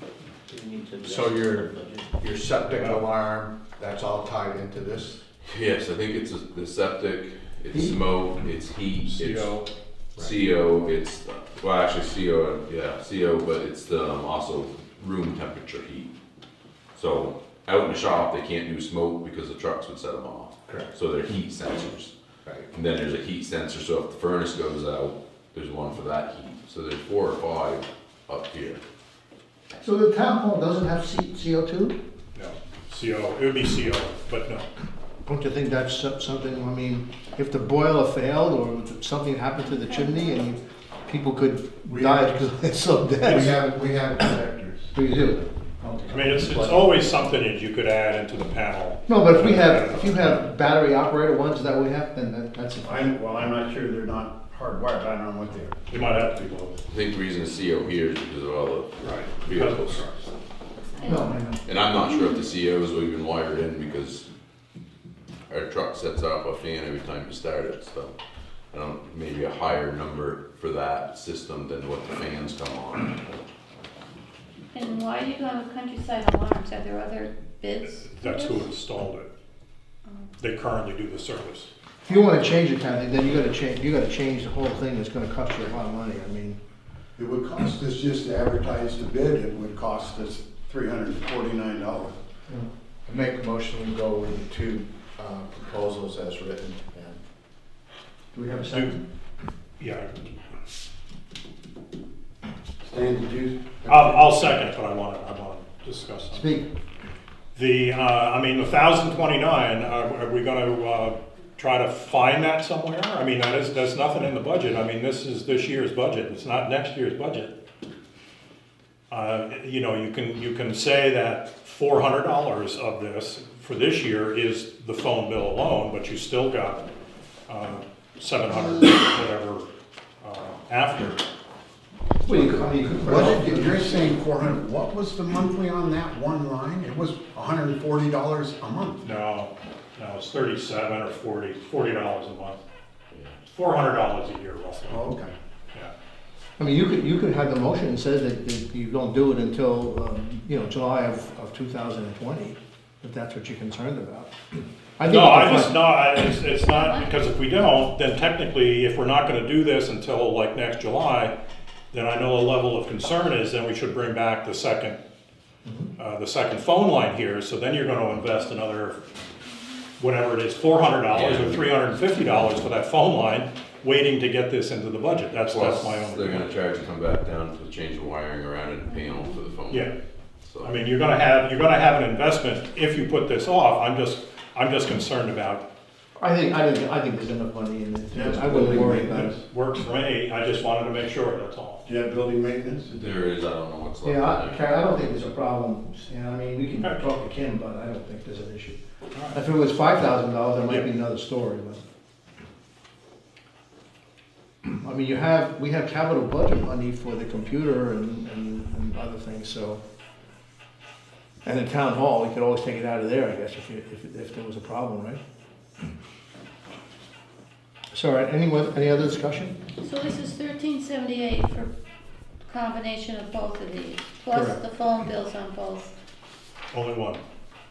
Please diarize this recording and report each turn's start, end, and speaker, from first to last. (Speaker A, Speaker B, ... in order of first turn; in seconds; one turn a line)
Speaker A: 0.5-5.2
Speaker B: 2.8-3.0
Speaker C: 5.4-9.6
Speaker B: 9.0-9.7
Speaker C: 10.2-16.1
Speaker C: 16.9-22.1
Speaker C: 22.7-28.8
Speaker D: 29.8-31.9
Speaker B: 32.3-34.6
Speaker D: 35.2-43.6
Speaker E: 39.6-40.5
Speaker F: 41.9-42.2
Speaker F: 43.2-45.5
Speaker D: 44.9-45.4
Speaker A: 45.8-47.1
Speaker B: 46.1-50.4
Speaker D: 49.1-53.1
Speaker F: 52.8-55.9
Speaker B: 55.9-56.8
Speaker C: 56.9-60.0
Speaker B: 59.0-60.3
Speaker E: 60.8-61.4
Speaker D: 61.0-61.6
Speaker C: 61.6-64.2
Speaker E: 62.0-62.4
Speaker C: 65.5-68.1
Speaker C: 68.7-73.2
Speaker E: 74.7-78.7
Speaker B: 78.0-79.3
Speaker E: 80.0-80.3
Speaker B: 80.4-81.7
Speaker D: 82.0-86.6
Speaker F: 87.2-92.2
Speaker A: 93.1-97.2
Speaker D: 98.3-99.0
Speaker B: 99.8-100.3
Speaker F: 102.8-104.3
Speaker B: 103.8-106.5
Speaker D: 106.3-106.7
Speaker B: 107.5-117.5
Speaker B: 119.1-126.9
Speaker B: 127.5-129.7
Speaker B: 130.2-131.2
Speaker D: 132.2-134.1
Speaker F: 133.0-139.1
Speaker B: 139.0-142.6
Speaker C: 143.1-143.4
Speaker B: 143.5-145.0
Speaker F: 144.9-145.3
Speaker D: 146.6-154.3
Speaker D: 155.0-155.9
Speaker B: 155.0-161.3
Speaker E: 156.6-157.2
Speaker B: 161.9-165.0
Speaker D: 165.6-165.9
Speaker B: 166.0-169.0
Speaker B: 170.0-176.4
Speaker C: 171.1-172.4
Speaker C: 175.3-179.9
Speaker E: 178.9-179.4
Speaker C: 180.4-180.8
Speaker B: 180.6-185.6
Speaker D: 186.2-189.4
Speaker F: 188.1-189.4
Speaker B: 189.3-191.8
Speaker F: 191.9-192.9
Speaker C: 192.9-194.6
Speaker D: 194.0-198.8
Speaker B: 196.8-197.1
Speaker D: 199.3-201.8
Speaker D: 204.8-209.8
Speaker D: 211.4-215.2
Speaker D: 217.9-219.6
Speaker E: 219.8-221.7
Speaker E: 222.4-225.9
Speaker D: 224.3-224.6
Speaker B: 226.7-227.2